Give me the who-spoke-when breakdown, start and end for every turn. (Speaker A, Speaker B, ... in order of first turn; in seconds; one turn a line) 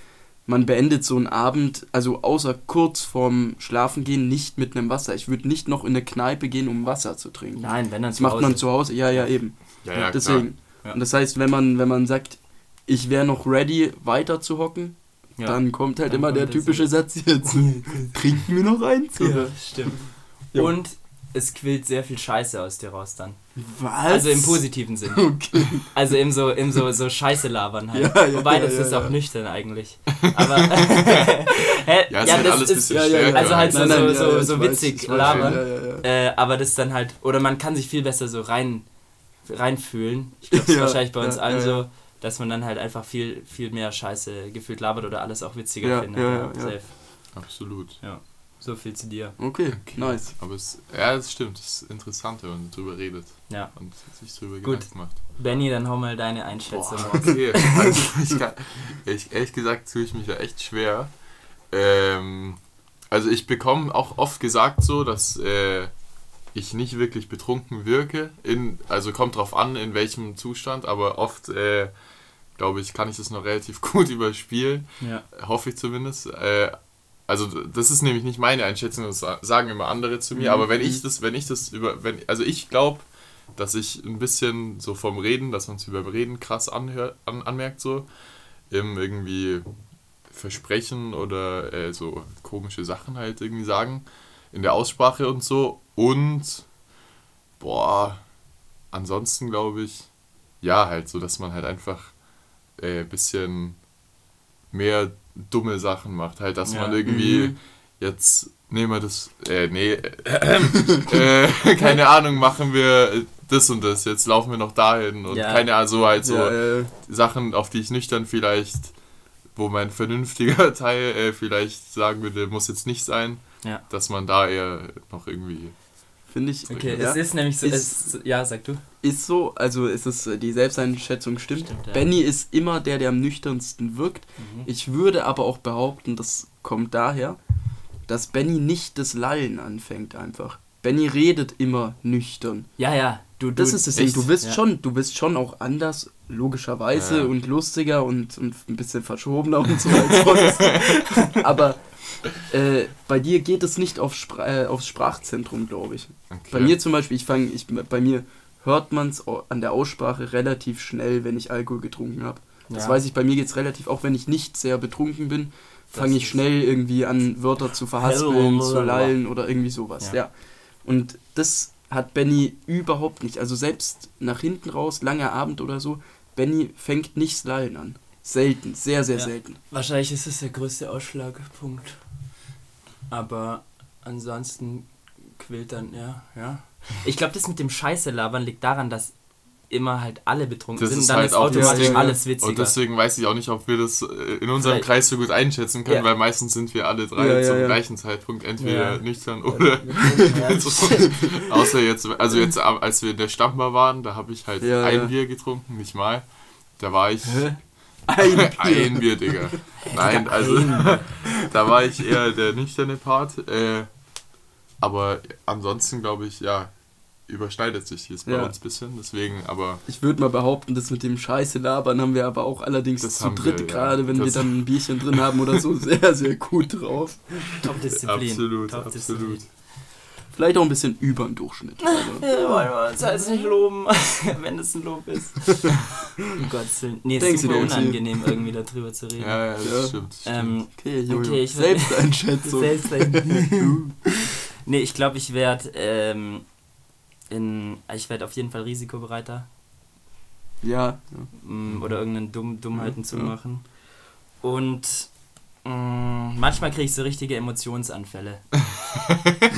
Speaker A: 0.5-20.7
Speaker B: 7.5-9.3
Speaker C: 9.8-10.5
Speaker B: 15.4-18.3
Speaker B: 19.2-23.4
Speaker A: 23.6-25.9
Speaker B: 24.1-49.4
Speaker A: 27.9-29.1
Speaker C: 32.1-34.2
Speaker A: 32.3-36.1
Speaker C: 35.2-35.6
Speaker A: 40.5-41.8
Speaker A: 45.8-46.8
Speaker C: 47.3-48.0
Speaker A: 49.4-50.3
Speaker C: 49.7-55.2
Speaker B: 53.5-58.0
Speaker C: 56.7-61.1
Speaker C: 61.7-62.6
Speaker C: 63.1-65.9
Speaker C: 66.5-72.0
Speaker C: 72.5-88.1
Speaker B: 75.0-75.2
Speaker A: 80.3-81.0
Speaker C: 88.7-89.6
Speaker C: 90.3-96.7
Speaker C: 97.6-98.2
Speaker C: 98.9-100.1
Speaker C: 100.6-102.2
Speaker C: 102.8-103.8
Speaker C: 104.7-119.0
Speaker B: 106.6-107.0
Speaker A: 107.0-107.5
Speaker B: 115.3-115.7
Speaker A: 116.2-116.9
Speaker C: 119.5-125.8
Speaker A: 126.3-128.1
Speaker C: 126.7-127.1
Speaker B: 126.7-128.8
Speaker A: 129.0-137.4
Speaker B: 131.6-132.1
Speaker B: 134.4-134.7
Speaker A: 138.1-142.7
Speaker B: 142.8-144.6
Speaker A: 143.6-179.6
Speaker C: 143.9-144.3
Speaker C: 146.9-147.3
Speaker C: 150.4-150.9
Speaker B: 150.7-151.4
Speaker C: 156.3-156.7
Speaker B: 162.7-163.0
Speaker B: 165.9-166.3
Speaker B: 168.0-169.1
Speaker B: 179.1-182.0
Speaker B: 183.1-189.2
Speaker B: 189.7-192.8
Speaker C: 190.8-206.2
Speaker A: 191.5-192.2
Speaker B: 194.6-194.9
Speaker A: 197.2-197.8
Speaker B: 198.6-201.4
Speaker A: 199.9-200.3
Speaker A: 204.6-205.1
Speaker C: 206.8-213.9
Speaker A: 207.2-209.5
Speaker B: 209.8-211.1
Speaker C: 214.8-216.7
Speaker C: 217.2-219.8
Speaker A: 218.2-218.5
Speaker A: 219.8-227.6
Speaker C: 223.0-225.6
Speaker B: 227.6-229.4
Speaker C: 228.0-229.4
Speaker A: 230.3-232.3
Speaker B: 231.8-239.6
Speaker A: 237.2-238.0
Speaker C: 237.2-237.8
Speaker C: 239.2-240.6
Speaker A: 239.6-240.0
Speaker B: 240.2-243.8
Speaker A: 240.7-244.3
Speaker B: 244.6-246.4
Speaker B: 247.3-249.5
Speaker A: 250.6-251.3
Speaker B: 251.3-253.7
Speaker A: 252.7-253.3
Speaker B: 254.4-255.1
Speaker B: 255.6-258.6